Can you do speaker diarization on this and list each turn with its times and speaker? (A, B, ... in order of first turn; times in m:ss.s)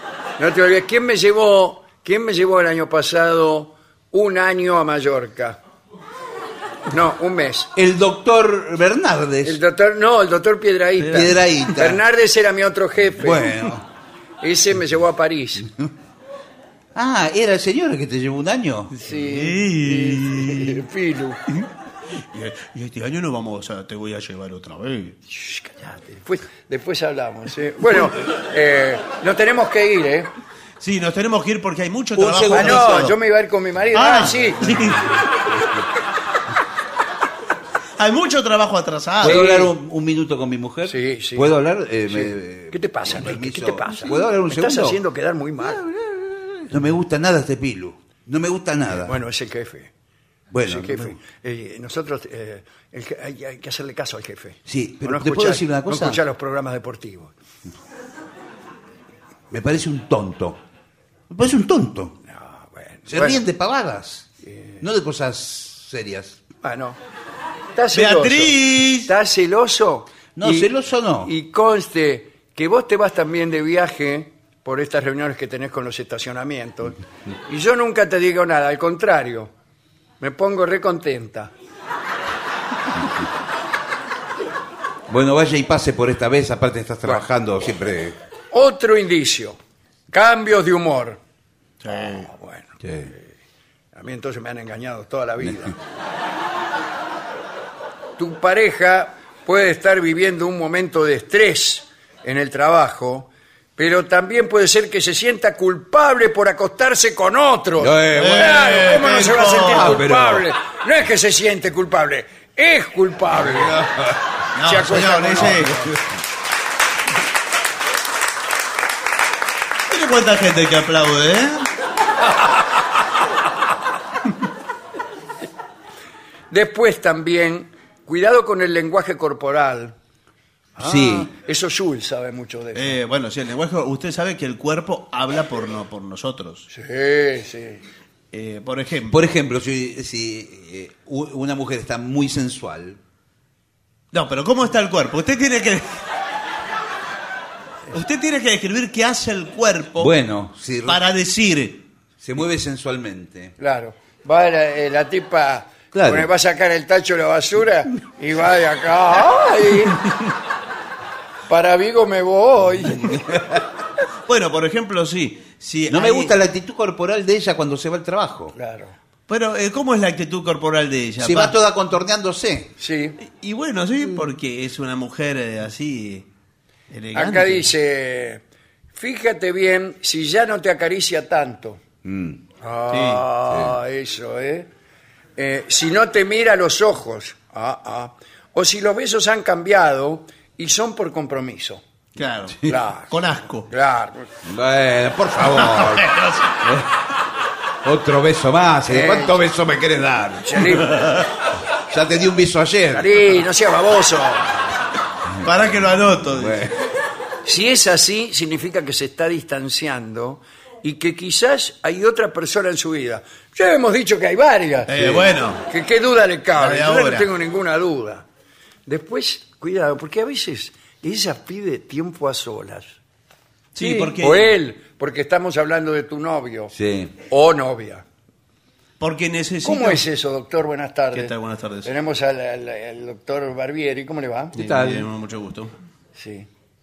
0:00.4-0:05.6 A
0:06.9-0:07.7 A
0:07.8-0:09.6 B
0:09.4-0:13.5 A
0:11.0-0:11.4 C
0:11.2-0:12.0 B
0:13.2-0:13.8 B
0:14.4-0:15.7 A
0:17.0-0:18.9 B
0:19.0-0:21.4 A
0:19.2-0:20.8 C
0:22.3-0:25.2 C
0:25.3-0:30.3 A
0:30.8-0:33.2 C
0:32.2-0:33.0 B
0:32.5-0:34.9 A
0:33.9-0:35.2 C
0:38.0-0:39.5 C
0:39.2-0:45.0 B
0:39.2-0:39.7 A
0:40.9-0:41.5 A
0:42.1-0:45.8 A
0:46.6-0:49.2 B
0:49.0-0:49.9 A
0:50.5-0:51.2 B
0:50.6-0:57.3 A
0:54.7-0:56.2 B
0:59.5-1:00.6 B
1:01.3-1:02.2 B
1:02.2-1:03.4 A
1:03.1-1:04.3 B
1:04.4-1:04.8 A
1:04.8-1:06.4 B
1:06.6-1:07.0 A
1:07.8-1:10.7 A
1:07.9-1:09.1 C
1:10.4-1:11.3 B
1:11.2-1:19.5 A
1:20.2-1:21.5 A
1:25.1-1:28.2 B
1:28.5-1:29.6 A
1:30.1-1:31.2 A
1:31.8-1:32.3 C
1:31.9-1:33.2 A
1:32.8-1:33.1 B
1:34.0-1:35.8 A
1:38.2-1:53.8 A
1:47.8-1:48.7 B
1:48.2-1:50.0 C
1:49.7-1:50.5 B
1:53.5-1:54.1 B
1:54.6-1:55.8 C
1:54.6-1:55.9 A
1:59.9-2:01.7 C
2:06.5-2:10.0 A
2:10.8-2:13.0 A
2:10.8-2:11.3 B
2:12.8-2:16.7 C
2:16.7-2:17.8 A
2:18.3-2:19.2 C
2:19.1-2:23.0 B
2:24.1-2:25.9 C
2:27.9-2:30.1 C
2:30.0-2:31.0 B
2:30.9-2:31.9 C
2:32.2-2:33.5 B
2:33.6-2:40.0 A
2:35.9-2:36.3 B
2:41.5-2:43.2 A
2:44.3-2:46.4 C
2:45.9-2:48.5 B
2:48.5-2:49.0 A
2:49.3-2:51.6 C
2:51.2-2:52.7 B
2:52.8-2:53.2 A
2:53.2-2:56.3 C
2:56.9-2:57.7 C
2:57.1-2:58.4 A
2:58.9-3:01.8 A
3:02.0-3:02.4 B
3:02.6-3:04.7 A
3:02.9-3:03.3 C
3:05.4-3:11.8 A
3:12.2-3:13.7 C
3:12.6-3:13.2 A
3:13.7-3:14.3 A
3:14.4-3:16.0 B
3:15.5-3:16.6 C
3:17.8-3:20.6 B
3:18.9-3:19.4 A
3:20.4-3:21.1 A
3:21.9-3:23.1 B
3:22.9-3:24.5 A
3:25.4-3:26.7 C
3:26.3-3:26.7 B
3:27.5-3:38.2 A
3:34.9-3:35.6 C
3:36.6-3:37.3 C
3:38.9-3:43.0 A
3:43.8-3:44.6 C
3:43.8-3:46.7 A
3:46.7-3:47.1 B
3:47.3-3:48.0 A
3:49.0-3:50.0 C
3:49.6-3:55.0 A
3:51.1-3:51.9 C
3:54.5-3:55.7 C
3:56.2-3:56.5 A